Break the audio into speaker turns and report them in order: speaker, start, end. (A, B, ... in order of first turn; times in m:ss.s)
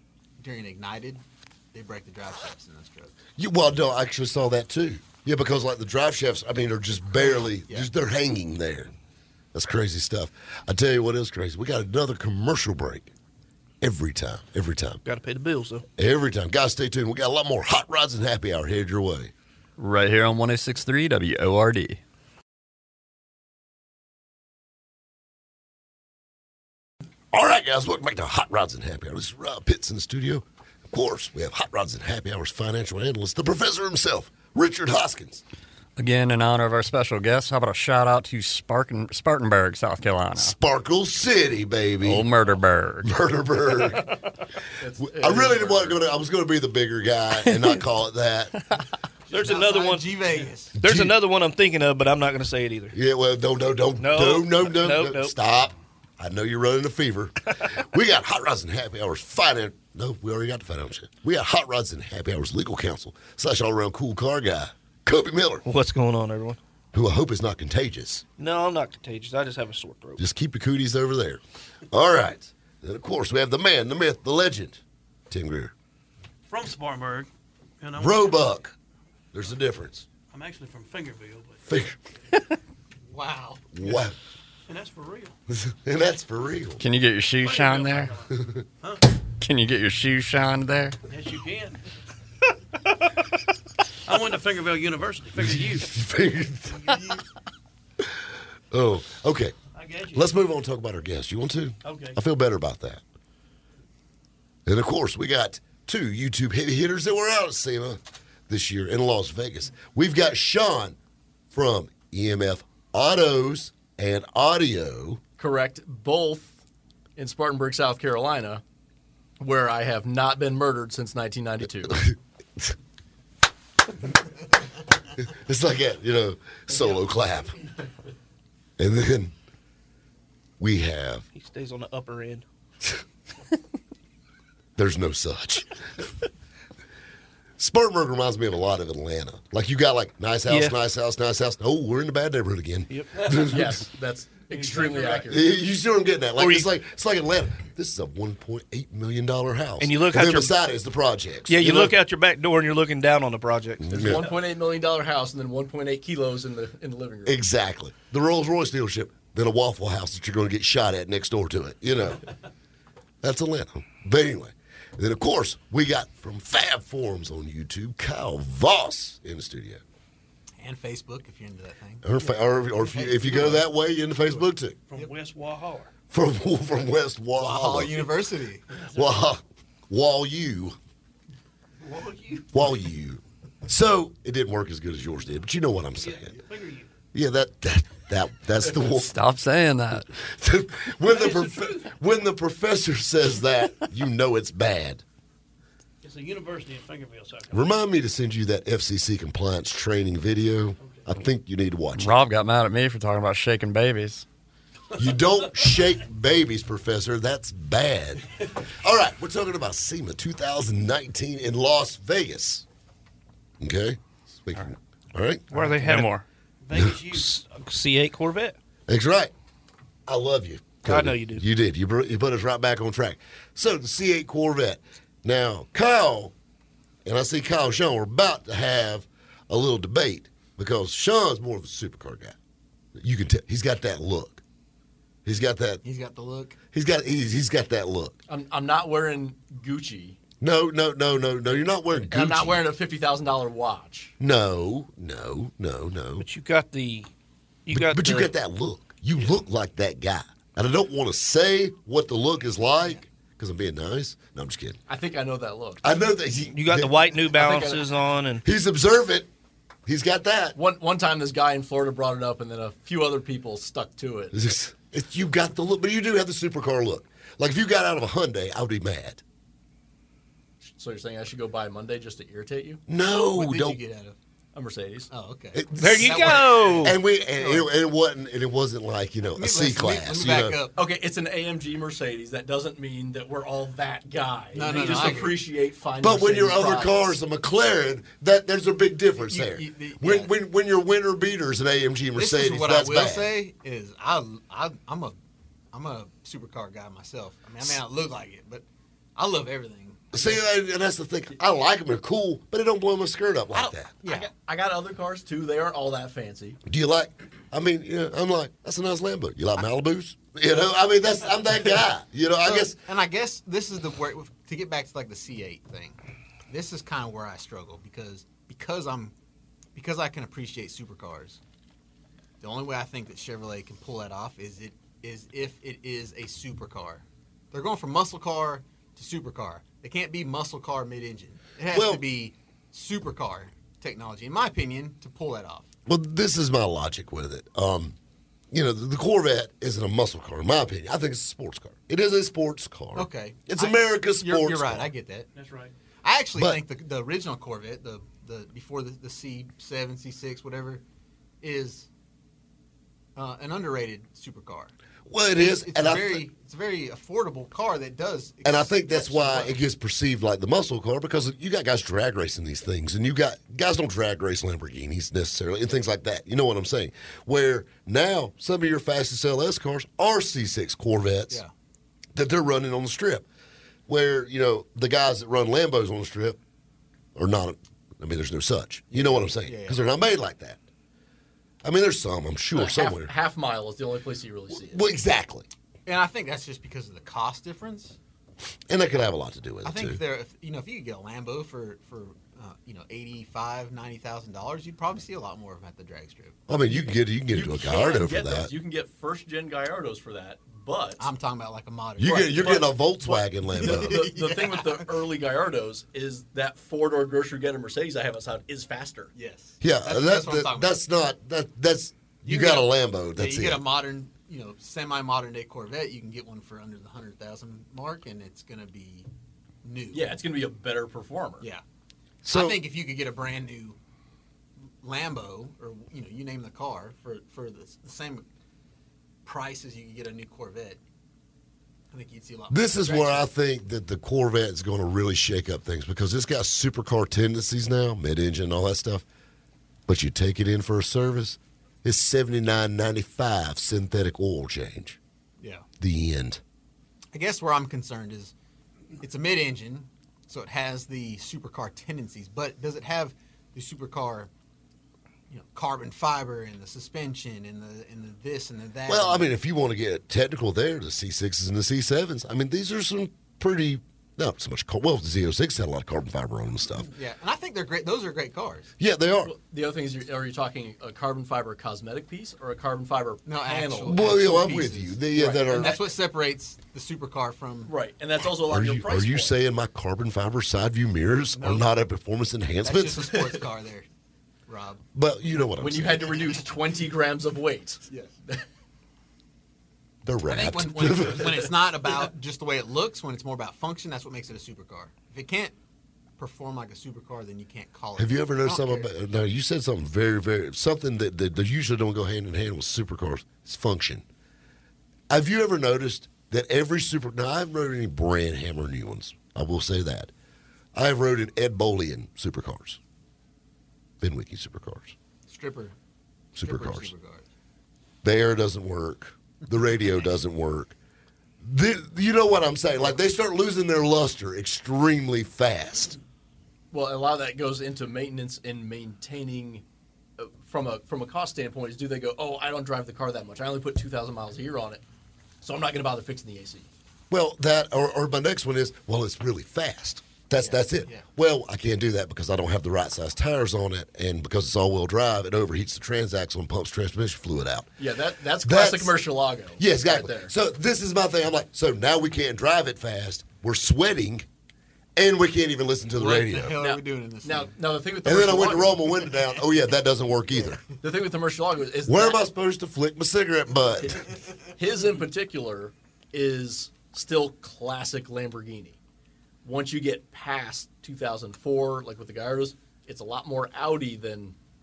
0:00.4-0:03.1 A
0:03.4-0:08.9 B
0:07.2-0:07.9 A
0:09.5-0:13.1 B
0:13.8-0:15.0 B
0:15.0-0:15.8 C
0:16.0-0:19.3 B
0:19.8-0:22.0 D
0:27.3-0:35.4 B
0:36.0-0:40.5 D
0:40.4-0:42.3 B
0:42.0-0:43.1 D
0:43.0-0:44.1 B
0:44.8-0:46.0 E
0:45.0-0:48.6 B
0:49.3-0:50.2 C
0:49.3-0:50.8 A
0:50.8-0:53.0 C
0:50.8-0:51.2 B
0:52.9-1:05.6 B
0:54.0-0:55.4 C
1:05.6-1:06.6 C
1:06.9-1:08.2 B
1:08.4-1:10.2 C
1:10.2-1:15.7 B
1:16.4-1:17.3 F
1:17.8-1:18.4 F
1:18.0-1:18.7 B
1:19.3-1:20.1 B
1:20.3-1:21.6 F
1:21.6-1:22.0 B
1:23.1-1:23.7 A
1:23.7-1:24.1 B
1:24.7-1:25.3 F
1:25.5-1:26.8 B
1:26.8-1:28.1 D
1:27.4-1:29.1 F
1:29.4-1:31.0 D
1:31.1-1:31.8 F
1:34.0-1:35.9 F
1:35.4-1:36.8 B
1:36.7-1:37.0 F
1:38.7-1:39.6 B
1:39.7-1:40.3 F
1:40.1-1:43.0 B
1:41.8-1:42.2 F
1:44.6-1:51.0 B
1:51.5-1:55.2 B
1:55.4-1:56.6 E
1:57.2-1:58.6 E
1:59.4-2:02.0 E
2:01.8-2:02.7 B
2:05.3-2:07.6 B
2:08.8-2:09.3 B
2:10.6-2:11.2 B
2:11.3-2:12.4 C
2:14.8-2:15.8 B
2:17.6-2:23.8 B
2:20.5-2:20.8 C
2:23.1-2:23.5 F
2:23.5-2:25.4 E
2:24.5-2:25.4 F
2:25.3-2:32.0 B
2:26.4-2:26.7 C
2:29.8-2:30.6 C
2:31.5-2:34.1 C
2:33.8-2:34.2 B
2:33.9-2:37.4 E
2:37.2-2:42.2 B
2:43.2-2:49.8 B
2:50.6-2:53.6 A
2:52.0-2:54.8 B
2:54.9-2:55.9 F
2:56.1-2:58.1 B
2:57.4-2:58.7 A
2:58.9-3:00.8 B
2:58.9-2:59.2 F
3:01.8-3:02.6 F
3:02.5-3:06.4 B
3:06.0-3:06.9 F
3:07.1-3:09.1 B
3:09.0-3:10.1 D
3:10.2-3:15.0 B
3:11.0-3:11.8 F
3:16.0-3:17.7 F
3:17.5-3:22.2 B
3:20.8-3:21.0 F
3:22.0-3:24.2 D
3:25.0-3:32.6 B
3:33.6-3:35.5 B
3:35.5-3:36.2 C
3:35.5-3:37.3 F
3:36.7-3:37.1 B
3:37.1-3:38.6 C
3:38.9-3:39.3 B
3:40.1-3:46.3 B
3:40.8-3:41.4 C
3:47.0-3:52.4 B
3:53.0-3:54.4 B
3:55.2-3:55.8 B
3:55.8-3:56.6 A
3:56.7-3:58.2 B
3:58.3-4:00.2 E
4:00.4-4:02.6 B
4:02.0-4:04.1 E
4:04.2-4:06.3 B
4:06.2-4:07.1 C
4:07.6-4:08.3 C
4:07.7-4:14.8 B
4:14.9-4:15.8 E
4:15.8-4:17.2 B
4:16.5-4:18.4 C
4:17.3-4:17.9 E
4:18.4-4:19.3 B
4:19.8-4:20.6 B
4:20.6-4:24.4 E
4:24.3-4:29.2 B
4:30.6-4:32.8 E
4:32.9-4:33.8 B
4:33.3-4:34.2 A
4:34.5-4:35.1 E
4:35.1-4:37.7 A
4:35.5-4:40.6 B
4:35.7-4:37.0 C
4:39.4-4:40.8 A
4:40.8-4:47.1 E
4:44.5-4:45.4 A
4:44.8-4:45.2 B
4:46.0-4:53.3 B
4:49.2-4:50.3 A
4:52.2-4:55.2 A
4:55.7-4:58.6 A
4:59.2-5:00.4 A
5:00.1-5:03.9 B
5:03.5-5:04.3 A
5:04.0-5:06.6 E
5:06.6-5:12.8 B
5:12.4-5:16.0 A
5:16.5-5:19.1 A
5:19.7-5:21.4 A
5:22.4-5:35.7 A
5:31.7-5:32.0 B
5:35.8-5:38.0 B
5:38.5-5:44.9 B
5:42.9-5:45.3 A
5:45.3-5:45.7 F
5:46.0-5:50.8 A
5:46.4-5:46.6 B
5:51.4-5:51.9 A
5:53.2-5:54.7 A
5:55.1-5:56.2 B
5:55.4-5:59.6 A
5:58.4-6:11.4 B
6:12.1-6:13.2 B
6:13.9-6:16.4 B
6:17.1-6:20.6 B
6:18.9-6:19.8 A
6:21.6-6:23.1 B
6:22.5-6:24.8 E
6:24.5-6:25.5 B
6:25.8-6:28.0 A
6:28.7-6:30.0 B
6:29.6-6:36.4 A
6:36.5-6:38.5 B
6:36.8-6:41.1 E
6:41.0-6:42.7 A
6:42.0-6:44.0 B
6:42.4-6:49.1 E
6:43.5-6:44.9 A
6:49.1-6:50.8 A
6:49.6-6:53.6 B
6:52.2-6:59.1 A
6:59.6-7:00.1 A
6:59.9-7:01.5 E
7:02.2-7:02.6 B
7:02.3-7:03.8 A
7:04.8-7:08.2 A
7:09.2-7:10.8 A
7:11.9-7:13.3 A
7:12.5-7:19.0 B
7:19.9-7:25.0 B
7:25.4-7:25.6 A
7:25.8-7:26.4 B
7:27.1-7:28.3 A
7:29.0-7:34.3 A
7:35.3-7:39.3 A
7:38.9-7:46.9 B
7:46.9-7:48.7 A
7:48.8-7:49.3 B
7:49.2-7:54.1 E
7:53.2-7:57.7 A
7:53.8-7:55.8 B
7:55.1-7:55.7 E
7:57.6-7:59.3 E
7:58.4-8:03.2 B
8:01.3-8:01.6 A
8:02.6-8:03.8 A
8:04.5-8:04.8 A
8:04.9-8:06.2 B
8:05.6-8:08.4 E
8:07.9-8:08.1 A
8:10.0-8:11.5 B
8:10.2-8:15.5 A
8:16.2-8:18.9 A
8:18.0-8:24.0 B
8:25.1-8:30.1 B
8:30.7-8:32.8 B
8:34.0-8:34.9 B
8:35.3-8:35.7 A
8:36.3-8:36.9 B
8:36.4-8:37.2 A
8:38.0-8:40.7 B
8:41.4-8:46.0 B
8:46.7-8:49.6 E
8:50.2-8:54.8 E
8:55.4-8:56.7 E
8:57.1-9:07.7 B
9:00.4-9:01.0 A
9:07.8-9:10.3 E
9:08.4-9:08.9 B
9:09.6-9:14.3 B
9:15.0-9:16.6 B
9:15.9-9:17.5 A
9:16.6-9:19.0 E
9:18.0-9:20.6 B
9:20.3-9:20.6 A
9:20.8-9:22.2 E
9:21.8-9:24.0 B
9:23.8-9:28.8 E
9:29.4-9:34.3 E